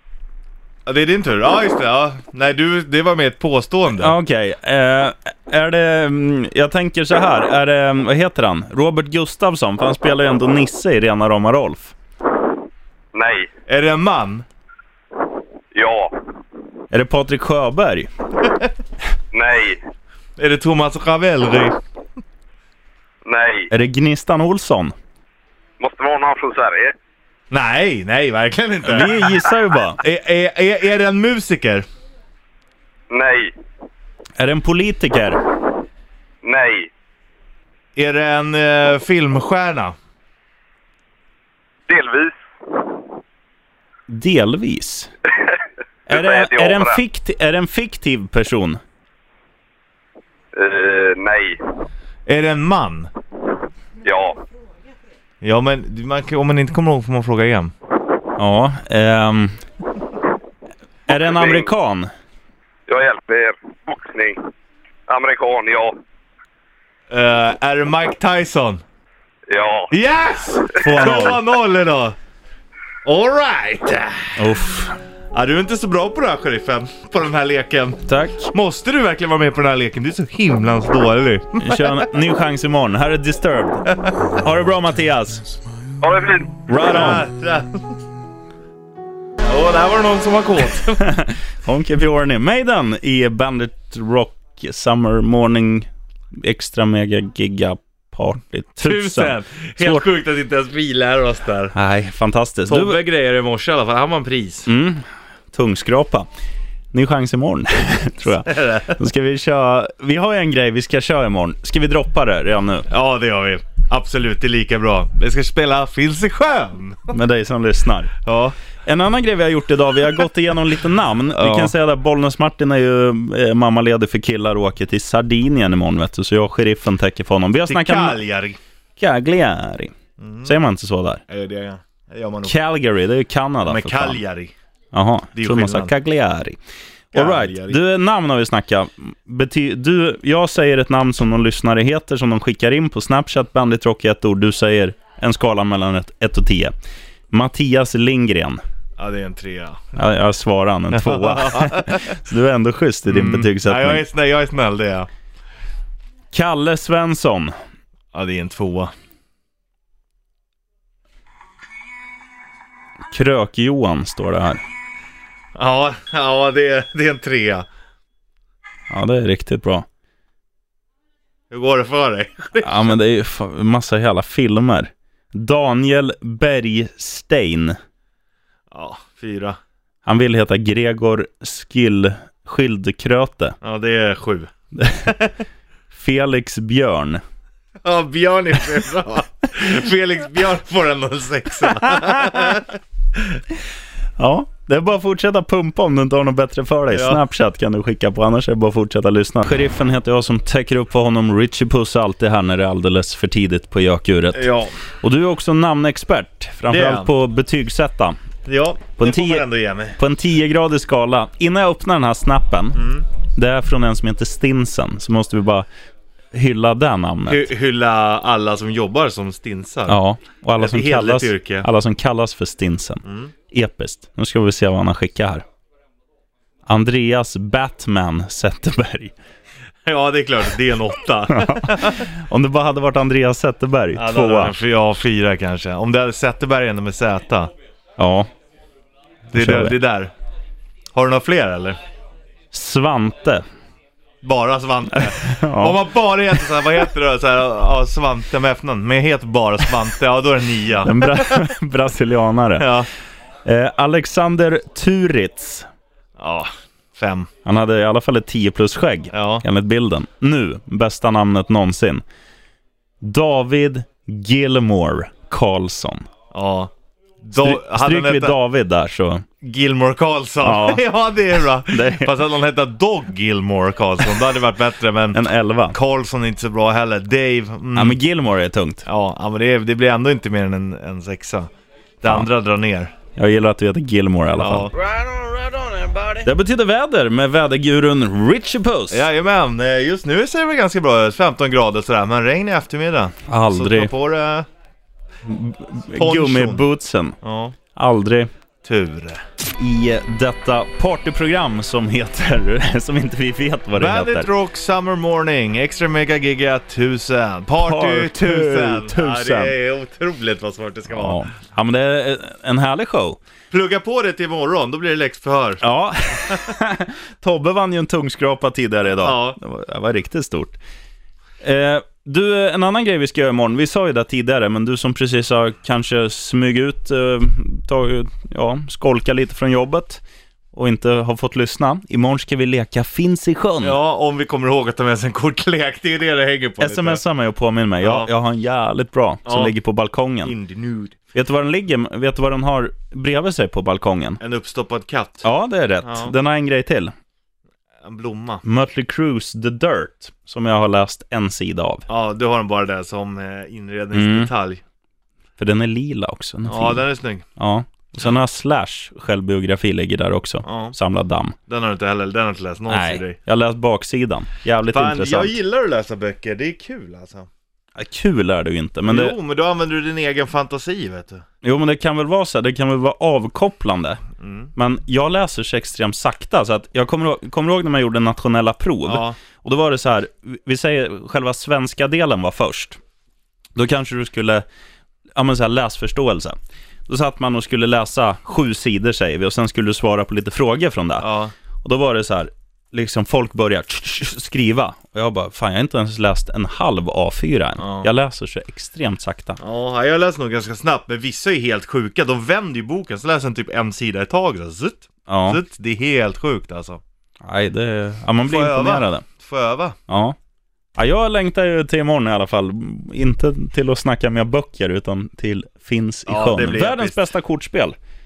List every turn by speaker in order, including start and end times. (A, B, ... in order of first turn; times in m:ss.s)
0:00.9-0:04.1 A
0:04.0-0:11.9 B
0:13.1-0:13.5 C
0:13.7-0:14.4 A
0:15.7-0:16.2 C
0:16.9-0:18.1 B
0:19.3-0:19.8 C
0:20.4-0:21.8 A
0:23.2-0:23.7 C
0:23.7-0:24.9 B
0:25.8-0:27.0 C
0:27.5-0:29.3 A
0:28.8-0:30.0 B
0:30.0-0:31.9 A
0:33.1-0:33.5 C
0:34.4-0:35.4 B
0:36.4-0:36.9 C
0:38.0-0:40.0 A
0:41.9-0:42.4 C
0:44.1-0:45.1 B
0:46.1-0:48.8 B
0:46.1-0:47.0 C
0:50.5-0:51.6 C
0:52.3-0:53.1 A
0:54.0-0:54.4 C
0:55.4-0:57.7 A
0:58.4-0:59.6 B
1:01.1-1:02.1 B
1:01.3-1:01.7 C
1:02.9-1:04.5 C
1:05.1-1:06.0 C
1:07.1-1:08.8 A
1:09.5-1:09.9 C
1:09.9-1:12.2 A
1:11.0-1:11.4 B
1:13.0-1:14.4 A
1:14.4-1:15.0 B
1:15.3-1:21.8 A
1:18.1-1:18.5 B
1:21.6-1:25.5 B
1:26.0-1:26.6 C
1:26.7-1:27.3 B
1:26.8-1:27.8 A
1:29.5-1:31.0 A
1:31.0-1:40.0 B
1:38.8-1:41.7 A
1:41.7-1:43.0 B
1:42.7-1:44.7 A
1:44.7-1:46.3 B
1:46.9-1:52.9 B
1:48.5-1:49.0 A
1:52.9-1:57.2 A
1:57.1-1:58.2 B
1:58.2-1:58.6 A
1:58.8-2:08.2 B
2:01.4-2:01.7 A
2:07.7-2:08.6 A
2:09.0-2:11.2 B
2:10.2-2:10.6 A
2:11.3-2:12.6 A
2:12.4-2:14.2 B
2:13.6-2:14.5 A
2:14.9-2:16.6 B
2:15.4-2:15.9 A
2:17.1-2:17.8 A
2:17.1-2:26.7 B
2:27.3-2:28.6 B
2:29.0-2:29.8 A
2:30.0-2:34.0 B
2:31.0-2:32.0 A
2:33.1-2:35.1 A
2:36.3-2:37.5 B
2:38.1-2:38.9 A
2:43.1-2:44.6 B
2:45.6-2:47.7 A
2:48.9-2:49.9 B
2:51.5-2:52.9 A
2:52.6-2:57.8 B
2:58.7-2:59.6 A
3:00.1-3:03.6 B
3:03.6-3:04.5 A
3:04.8-3:05.2 B
3:05.9-3:07.2 B
3:07.8-3:13.4 A
3:11.9-3:12.4 B
3:14.2-3:24.5 B
3:16.9-3:17.2 A
3:24.4-3:24.7 A
3:25.0-3:28.2 B
3:26.7-3:27.1 A
3:28.5-3:30.0 A
3:29.0-3:35.7 B
3:32.8-3:33.0 A
3:36.3-3:37.5 B
3:37.3-3:40.0 A
3:39.9-3:45.4 B
3:40.6-3:41.7 A
3:43.0-3:43.3 A
3:46.7-3:49.2 B
3:49.9-3:52.0 A
3:51.3-3:54.6 B
3:54.0-3:57.5 A
3:58.0-3:58.3 B
3:59.3-4:00.1 A
3:59.4-3:59.8 B
4:00.9-4:01.8 A
4:02.5-4:03.4 B
4:04.2-4:11.4 A
4:05.0-4:05.8 B
4:10.8-4:12.7 B
4:12.6-4:12.9 A
4:13.4-4:15.7 B
4:16.2-4:17.3 A
4:17.4-4:22.0 B
4:19.1-4:19.4 A
4:23.0-4:26.1 B
4:26.3-4:26.7 A
4:27.2-4:28.4 A
4:27.4-4:29.3 B
4:29.4-4:35.2 A
4:30.4-4:30.8 B
4:31.7-4:32.1 B
4:35.1-4:35.8 B
4:35.7-4:38.0 A
4:37.8-4:38.9 B
4:38.9-4:41.5 A
4:42.0-4:42.9 A
4:43.2-4:44.7 B
4:44.4-4:44.9 A
4:46.2-4:49.0 B
4:48.9-4:54.5 A
4:53.3-4:53.9 B
4:55.2-4:57.2 B
4:56.0-4:56.7 A
4:57.2-4:57.6 A
4:57.8-4:58.3 B
4:58.6-4:59.2 A
4:59.6-5:04.3 B
5:03.8-5:11.2 A
5:07.6-5:09.6 B
5:10.9-5:13.2 B
5:13.5-5:15.6 A
5:15.6-5:20.6 B
5:19.0-5:19.4 A
5:21.4-5:30.0 B
5:30.5-5:33.8 B
5:33.6-5:37.0 A
5:36.6-5:40.3 B
5:37.8-5:38.1 A
5:39.3-5:39.5 A
5:40.2-5:41.0 A
5:41.2-5:44.2 B
5:44.2-5:45.3 A
5:45.2-5:46.9 B
5:45.8-5:46.1 A
5:47.8-5:48.4 A
5:48.4-5:51.9 B
5:51.9-5:54.6 A
5:53.9-5:54.3 B
5:55.4-6:01.4 B
5:56.5-5:57.3 A
6:00.5-6:00.8 A
6:01.5-6:03.2 A
6:02.7-6:05.4 B
6:04.7-6:07.3 A
6:07.8-6:09.2 B
6:08.9-6:11.2 A
6:11.4-6:14.0 B
6:14.2-6:14.5 A
6:14.6-6:22.8 B
6:18.9-6:19.2 A
6:23.6-6:24.4 B
6:25.2-6:26.4 B
6:26.9-6:31.1 B
6:31.0-6:31.3 A
6:31.6-6:39.4 B
6:37.6-6:37.9 A
6:39.4-6:46.8 A
6:45.1-6:45.4 B
6:47.2-6:49.0 B
6:48.2-6:49.8 A
6:49.9-6:50.2 B
6:50.8-6:57.8 B
6:56.1-6:57.0 A